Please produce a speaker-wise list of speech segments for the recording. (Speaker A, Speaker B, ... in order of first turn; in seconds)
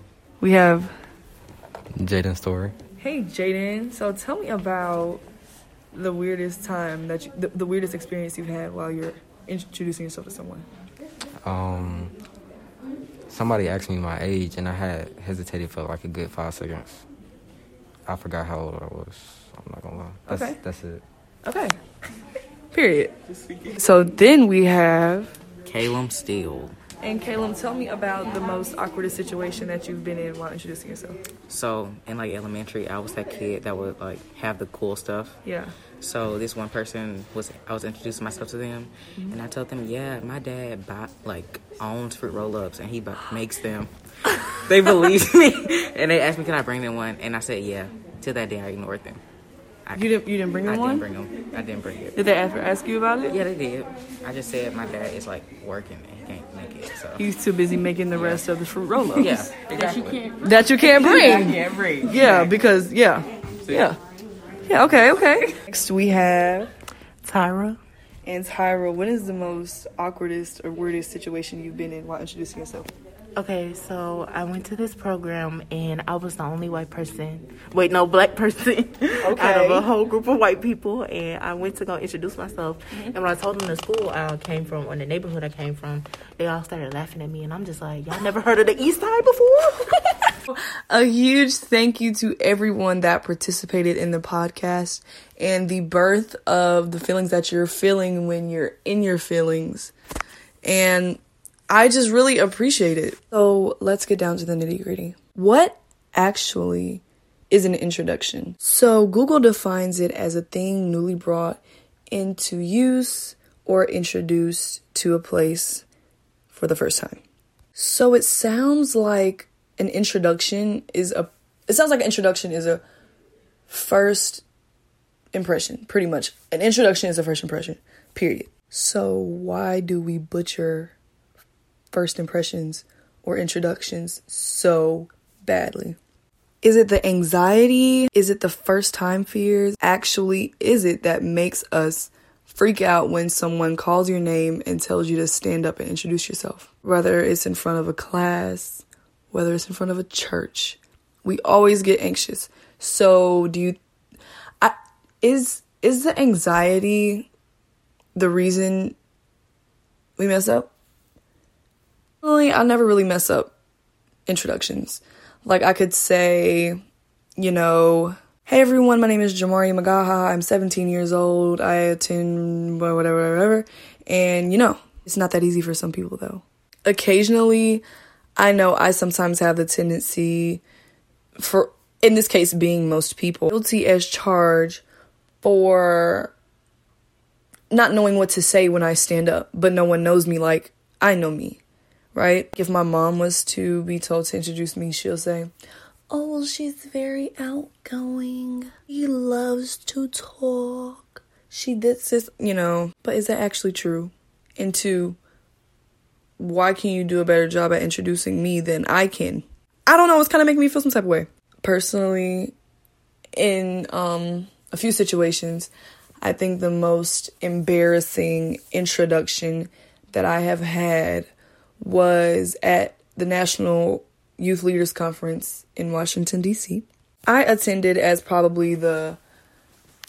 Speaker A: 0.4-0.9, 3.0-5.2, 5.9-10.7, 20.3-20.6, 21.4-21.8, 22.7-23.1, 23.7-25.3, 27.0-31.2, 35.4-35.7, 49.9-51.0, 52.1-53.4, 57.2-59.5, 60.4-64.0, 64.7-66.7, 68.2-72.9, 79.2-79.8, 90.5-99.9, 100.6-111.6, 112.1-115.8, 116.5-117.2, 117.7-122.8, 123.7-124.4, 125.3-130.9, 131.9-136.0, 136.6-153.8, 154.6-157.3, 158.1-158.9, 160.2-160.7, 162.2-163.5, 164.3-166.8, 167.4-177.8, 178.4-180.6, 181.4-184.8, 185.4-186.3, 187.7-191.6, 192.1-195.5, 196.1-205.2, 206.4-212.5, 213.3-215.7, 216.2-229.2
Speaker B: 1.9-2.7, 11.4-12.1, 13.3-17.1, 18.1-21.0
Speaker C: 25.6-26.8, 31.5-35.4, 36.0-43.9, 44.7-49.2, 50.7-52.1, 53.3-57.2, 58.1-58.4, 59.2-60.3, 61.0-62.5
Speaker D: 67.2-67.8, 73.3-90.1